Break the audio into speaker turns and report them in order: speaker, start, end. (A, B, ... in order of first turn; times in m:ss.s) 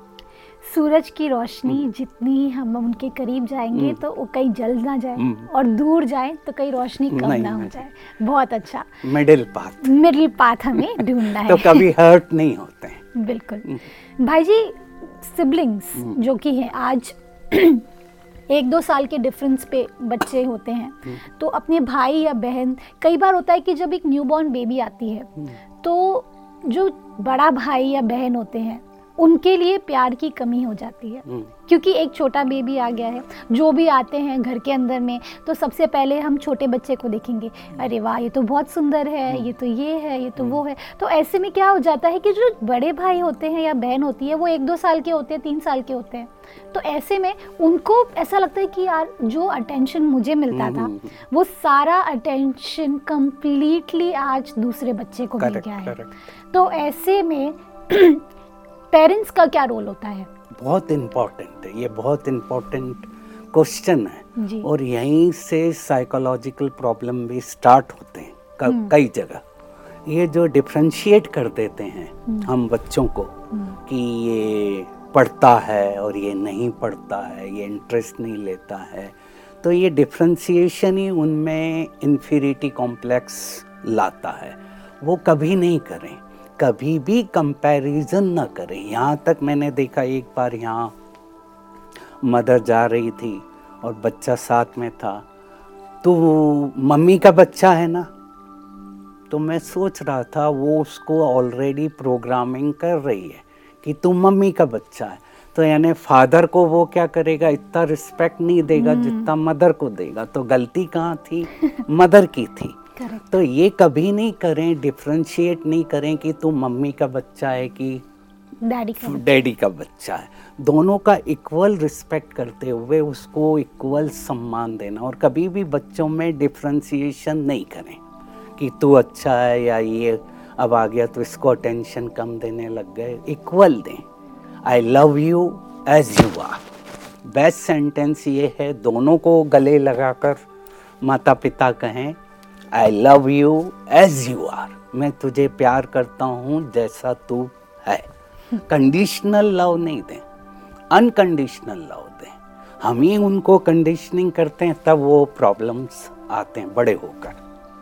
0:00.7-0:09.0 A
0:03.7-0:04.0 B
0:05.2-0:05.5 B
0:07.1-0:07.8 B
0:09.0-0:10.0 B
0:09.8-0:11.9 A
0:10.8-0:13.1 B
0:13.2-0:17.8 A
0:18.5-0:56.0 A
0:50.5-0:51.2 B
0:55.4-0:56.1 B
0:56.5-0:58.2 A
0:58.9-1:00.3 A
1:00.5-1:09.4 B
1:04.4-1:04.7 A
1:08.6-1:08.9 A
1:10.1-1:13.4 B
1:13.5-1:13.8 A
1:13.9-1:31.0 B
1:32.2-1:35.2 B
1:36.0-1:38.1 B
1:39.3-1:52.8 B
1:48.8-1:49.3 A
1:53.0-1:53.3 A
1:53.3-1:58.0 B
1:58.6-1:59.2 A
1:59.0-2:08.0 B
2:08.6-2:14.0 B
2:14.6-2:16.6 B
2:17.2-2:20.4 B
2:21.0-2:22.2 B
2:22.7-2:28.1 B
2:28.6-2:30.2 B
2:30.9-2:37.4 B